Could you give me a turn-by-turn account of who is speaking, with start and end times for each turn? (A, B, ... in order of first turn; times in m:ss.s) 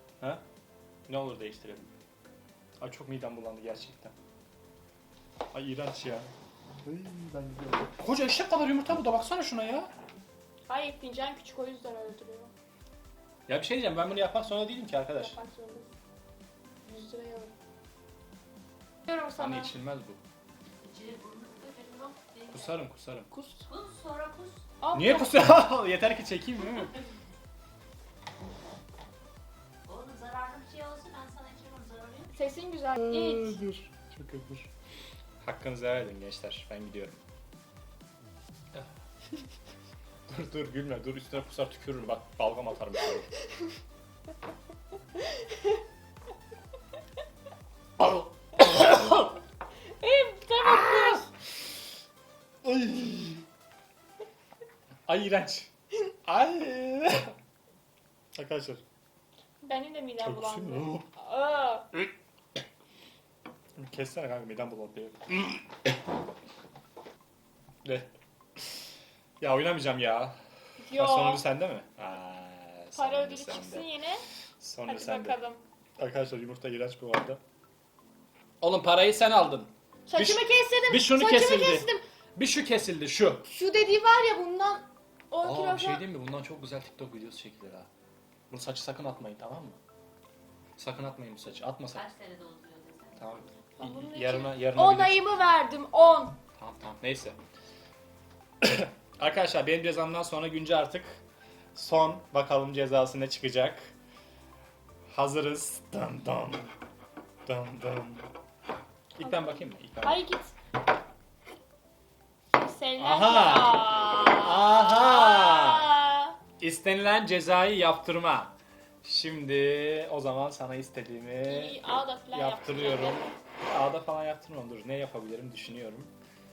0:01.1-0:01.9 A
0:02.8-0:04.1 A
0:05.5-0:06.3 A
0:06.8-0:09.9 A
0:10.7-0:12.5 B
0:13.5-0:15.4 A
0:15.1-0:15.9 B
0:16.8-0:17.5 B
0:19.1-0:19.7 B
0:19.4-0:20.2 A
0:20.8-0:22.8 C
0:22.5-0:23.3 A
0:23.3-0:23.7 B
0:23.6-0:24.6 C
0:24.8-0:25.3 B
0:24.9-0:27.0 A
0:29.8-0:32.3 C
0:32.3-0:33.6 B
0:33.0-0:34.7 A
0:35.4-0:37.2 A
0:40.3-0:43.3 A
0:48.0-0:49.3 A
0:50.0-0:51.3 B
0:52.6-0:53.4 A
0:55.1-0:55.7 A
0:56.2-0:57.4 A
0:58.3-0:58.8 A
0:59.6-1:01.9 B
1:00.2-1:01.1 A
1:03.8-1:05.6 A
1:07.8-1:08.1 A
1:09.4-1:10.4 A
1:10.8-1:11.4 B
1:10.9-1:13.9 A
1:12.9-1:14.2 B
1:14.6-1:15.4 A
1:14.9-1:15.6 B
1:16.0-1:17.4 A
1:18.6-1:23.5 A
1:20.1-1:22.0 B
1:23.5-1:26.0 B
1:25.4-1:27.9 A
1:28.5-1:29.8 A
1:30.8-1:32.0 A
1:31.9-1:33.2 C
1:33.2-1:35.2 A
1:33.8-1:36.4 B
1:36.6-1:37.4 A
1:38.6-1:41.2 A
1:41.7-1:43.9 A
1:45.1-1:46.7 A
1:47.4-1:48.3 A
1:49.1-1:50.2 A
1:49.2-1:50.6 B
1:52.5-1:56.3 B
1:53.0-1:55.8 A
1:56.6-2:01.8 A
2:01.4-2:03.4 B
2:02.3-2:06.1 A